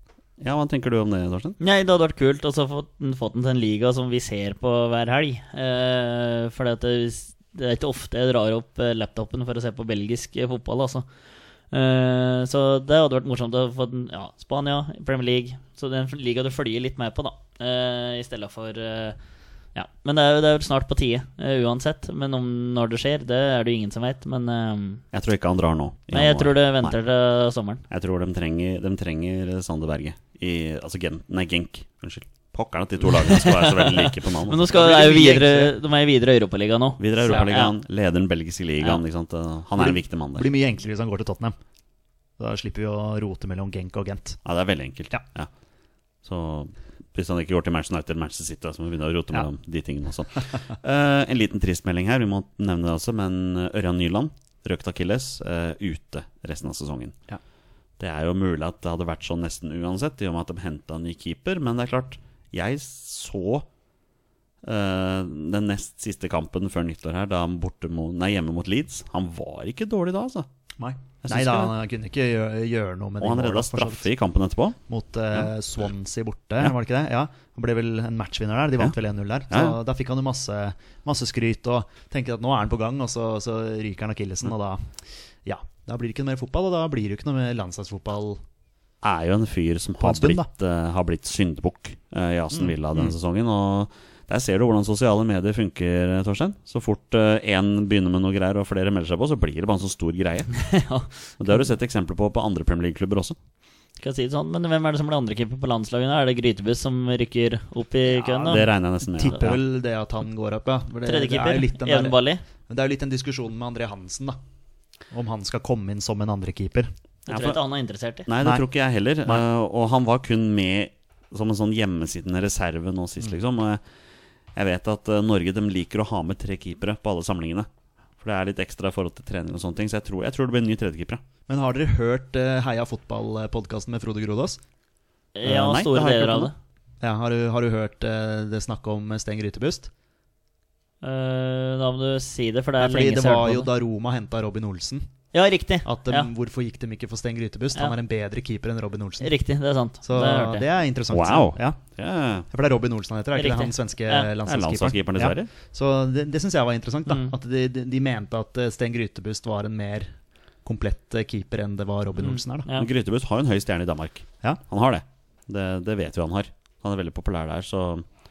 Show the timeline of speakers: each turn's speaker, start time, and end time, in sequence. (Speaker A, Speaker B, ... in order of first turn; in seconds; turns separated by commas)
Speaker A: 0.4-1.6, Speaker B: 1.6-11.1, Speaker B: 11.7-19.2, Speaker B: 19.7-25.0, Speaker A: 25.1-26.9, Speaker B: 26.1-27.8, Speaker A: 27.9-34.6, Speaker B: 33.0-37.7, Speaker C: 34.7-35.7, Speaker A: 37.0-40.5, Speaker C: 39.8-41.5, Speaker C: 42.4-44.4, Speaker A: 44.4-45.5, Speaker A: 46.2-57.1, Speaker A: 58.0-63.7, Speaker A: 64.6-70.5, Speaker C: 70.8-74.0, Speaker A: 71.2-71.7, Speaker A: 73.2-74.8, Speaker C: 74.9-84.8, Speaker A: 79.5-79.8, Speaker C: 85.5-88.4, Speaker A: 89.0-100.6, Speaker C: 90.0-90.5, Speaker C: 92.5-93.1, Speaker B: 100.5-101.1, Speaker A: 101.4-103.3, Speaker B: 104.0-108.7, Speaker A: 108.4-109.6, Speaker C: 109.2-114.4, Speaker B: 111.0-112.4, Speaker C: 115.1-116.9, Speaker B: 117.3-118.3, Speaker A: 117.3-117.6, Speaker A: 118.3-123.8, Speaker A: 124.5-131.2, Speaker C: 131.5-134.6, Speaker B: 135.3-136.5, Speaker A: 135.4-136.5, Speaker C: 137.0-139.9, Speaker B: 141.0-143.7, Speaker C: 142.8-145.1, Speaker B: 145.3-146.3, Speaker C: 145.8-149.3, Speaker B: 149.2-150.7, Speaker C: 150.0-151.8, Speaker A: 151.1-152.5, Speaker C: 152.5-160.1, Speaker B: 153.3-154.3, Speaker A: 154.4-155.5, Speaker B: 157.1-157.3, Speaker C: 160.6-162.7, Speaker B: 162.2-162.9, Speaker A: 162.7-168.0